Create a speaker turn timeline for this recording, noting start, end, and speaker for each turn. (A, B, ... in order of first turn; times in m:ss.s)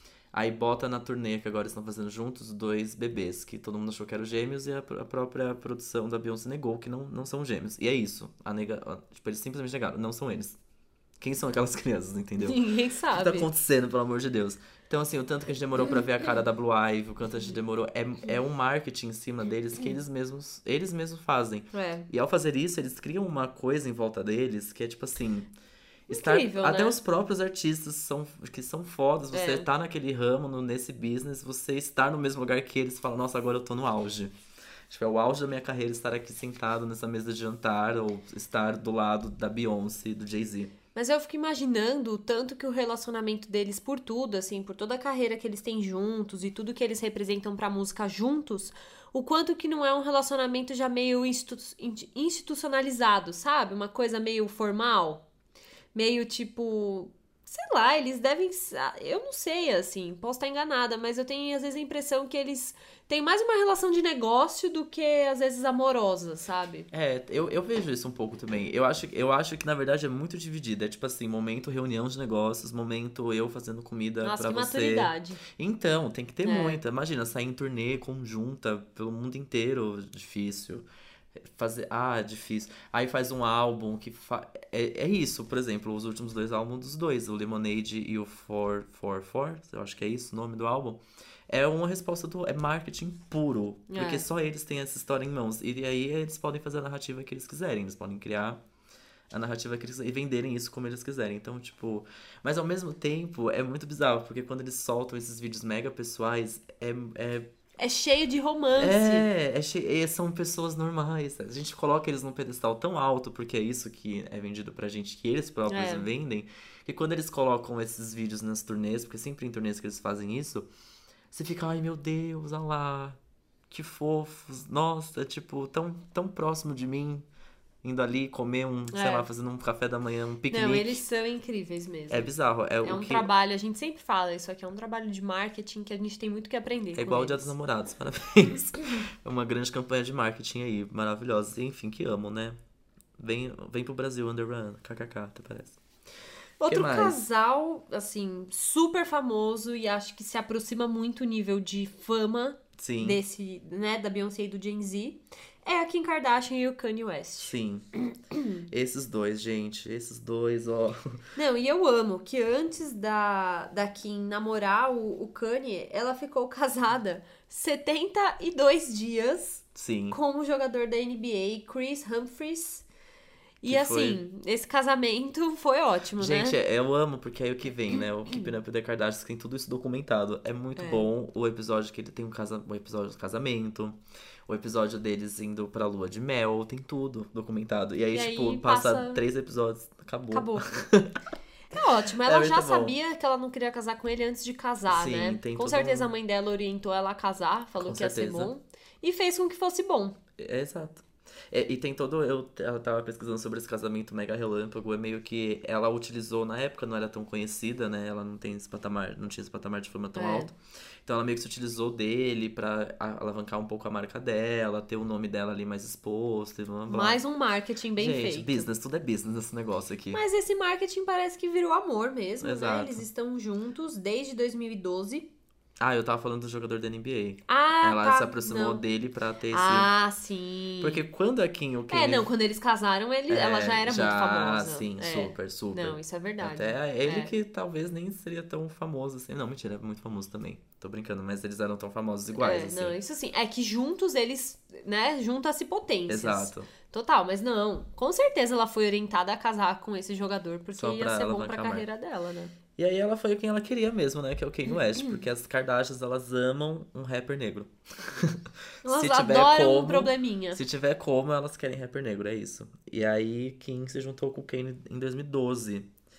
0:00.3-0:10.6 A
0:11.2-0:25.5 A
0:12.4-0:13.5 B
0:21.7-0:22.1 B
0:26.1-0:27.0 B
0:26.1-0:34.3 A
0:29.3-0:29.7 B
0:34.9-0:40.7 A
0:40.9-0:55.2 B
0:55.9-1:06.9 B
1:06.9-1:20.8 A
1:14.2-1:15.4 B
1:16.4-1:16.8 B
1:21.4-1:38.6 A
1:33.9-1:34.2 B
1:39.3-1:47.5 A
1:47.8-1:49.3 B
1:48.8-2:00.7 A
1:55.7-1:56.1 B
2:01.3-2:03.2 A
2:03.7-2:07.2 A
2:07.8-2:11.0 A
2:08.9-2:09.3 B
2:10.5-2:12.3 B
2:12.1-2:13.3 A
2:12.8-2:17.5 B
2:16.9-2:22.6 A
2:23.2-2:25.8 A
2:26.6-2:37.6 B
2:26.6-2:27.2 A
2:32.8-2:33.2 A
2:37.4-2:37.8 A
2:38.3-2:38.6 B
2:38.7-2:41.0 A
2:41.4-2:52.8 B
2:49.7-2:50.2 A
2:53.6-2:56.6 B
2:53.6-2:54.2 A
2:56.2-3:11.2 A
3:00.8-3:01.1 B
3:08.1-3:09.2 B
3:10.3-3:10.7 B
3:11.7-3:20.2 B
3:12.2-3:13.0 A
3:14.9-3:16.1 A
3:17.8-3:18.5 A
3:20.4-3:30.5 A
3:30.1-3:30.5 B
3:31.0-3:37.2 A
3:36.9-3:38.7 B
3:38.0-3:40.2 A
3:40.1-3:45.3 B
3:42.4-3:43.0 A
3:45.8-3:49.9 A
3:47.5-3:48.8 B
3:49.5-3:51.0 B
3:50.8-3:52.3 A
3:51.9-3:57.3 B
3:53.3-4:02.9 A
4:02.4-4:12.5 B
4:06.1-4:06.7 A
4:10.8-4:11.9 A
4:12.8-4:25.9 A
4:14.7-4:15.2 B
4:18.8-4:20.6 B